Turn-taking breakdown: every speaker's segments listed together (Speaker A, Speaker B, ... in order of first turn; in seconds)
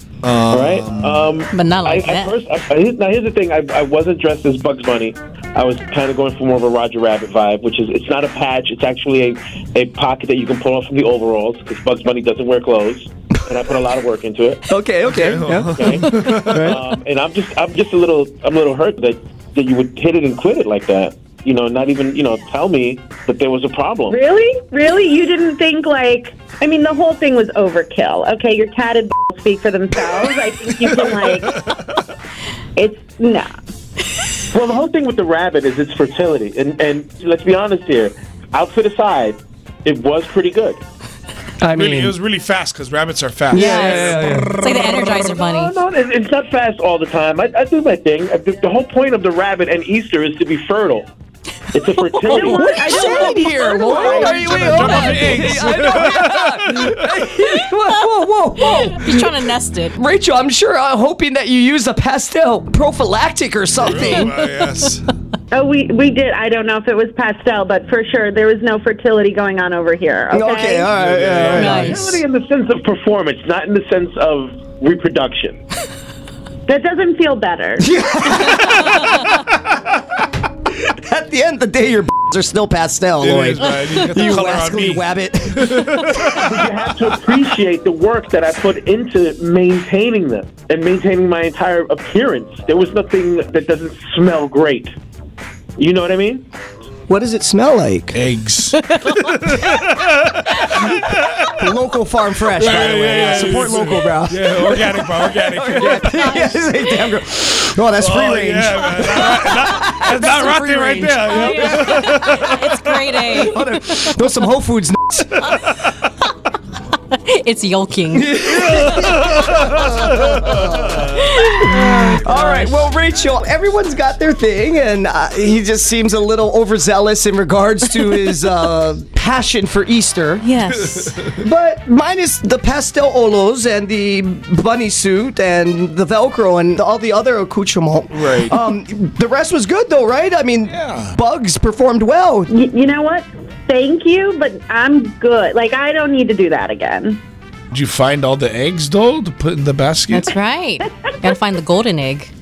Speaker A: 0.2-1.3, 15.1-16.8, 31.0-31.7, 41.7-45.1, 54.2-57.3, 63.8-65.1, 70.9-71.8, 83.2-85.0, 85.6-86.5, 98.1-101.5, 102.6-106.4, 107.9-113.3, 115.5-116.0, 118.6-121.4, 130.9-131.3, 138.1-138.6, 140.7-141.1, 147.7-150.3
Speaker B: 0.5-14.6, 15.8-24.2, 34.5-40.8, 45.1-51.1, 51.7-52.6, 71.6-75.6, 86.5-94.9, 95.8-96.5
Speaker C: 1.5-2.4, 43.5-45.7, 52.2-55.4, 57.8-60.0, 71.5-72.1, 98.8-99.5, 106.3-107.1, 111.3-114.3, 117.1-118.4, 121.4-122.8, 130.4-131.2, 150.1-152.3
Speaker D: 14.7-16.8, 41.6-42.2, 43.5-44.5, 52.3-59.4, 59.9-64.4, 70.3-72.2, 77.8-79.4, 80.8-86.0, 97.1-98.2, 101.6-112.1, 113.3-115.4, 118.1-130.5, 131.4-142.5
Speaker E: 24.1-31.6, 32.8-33.5, 52.3-54.5, 65.5-70.9, 76.7-77.9, 142.5-147.2, 150.8-151.3